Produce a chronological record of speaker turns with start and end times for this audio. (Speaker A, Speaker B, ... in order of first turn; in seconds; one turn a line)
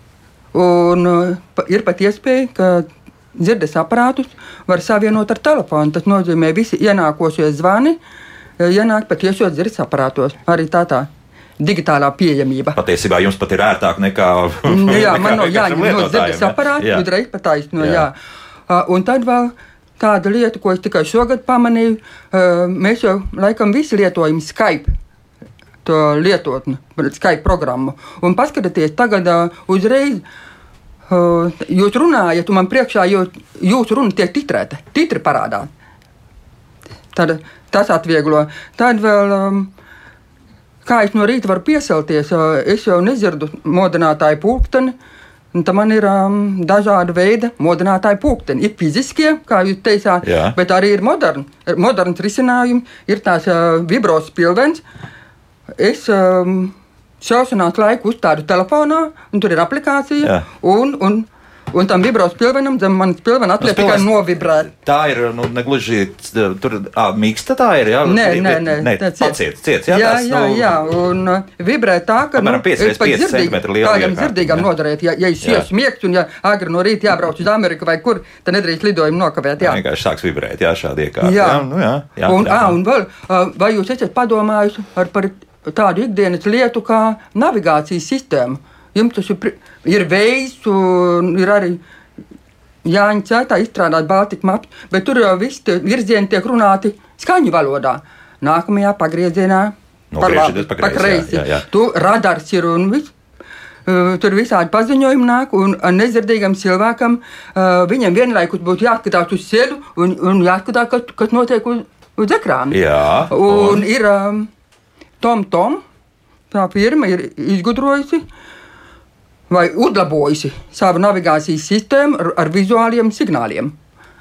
Speaker A: 0.5-8.0
Speaker A: 8.6-12.8
Speaker B: 12.8-17.1
Speaker A: 14.7-18.1
Speaker B: 17.8-18.0
Speaker A: 18.7-24.9
Speaker A: 25.8-30.2
Speaker A: 31.1-35.7
Speaker A: 37.1-39.7
Speaker A: 40.8-44.9
Speaker A: 45.5-54.8
Speaker B: 50.2-50.5
Speaker A: 55.8-64.7
Speaker B: 63.6-70.8
Speaker A: 68.0-69.3
Speaker A: 69.9-79.8
Speaker B: 72.3-74.7
Speaker B: 79.6-82.8
Speaker A: 81.2-81.7
Speaker A: 82.2-91.8
Speaker A: 92.8-103.1
Speaker B: 100.1-101.6
Speaker A: 103.8-112.8
Speaker B: 112.7-113.8
Speaker A: 113.3-114.5
Speaker A: 115.2-115.8
Speaker A: 116.5-118.2
Speaker A: 119.5-123.7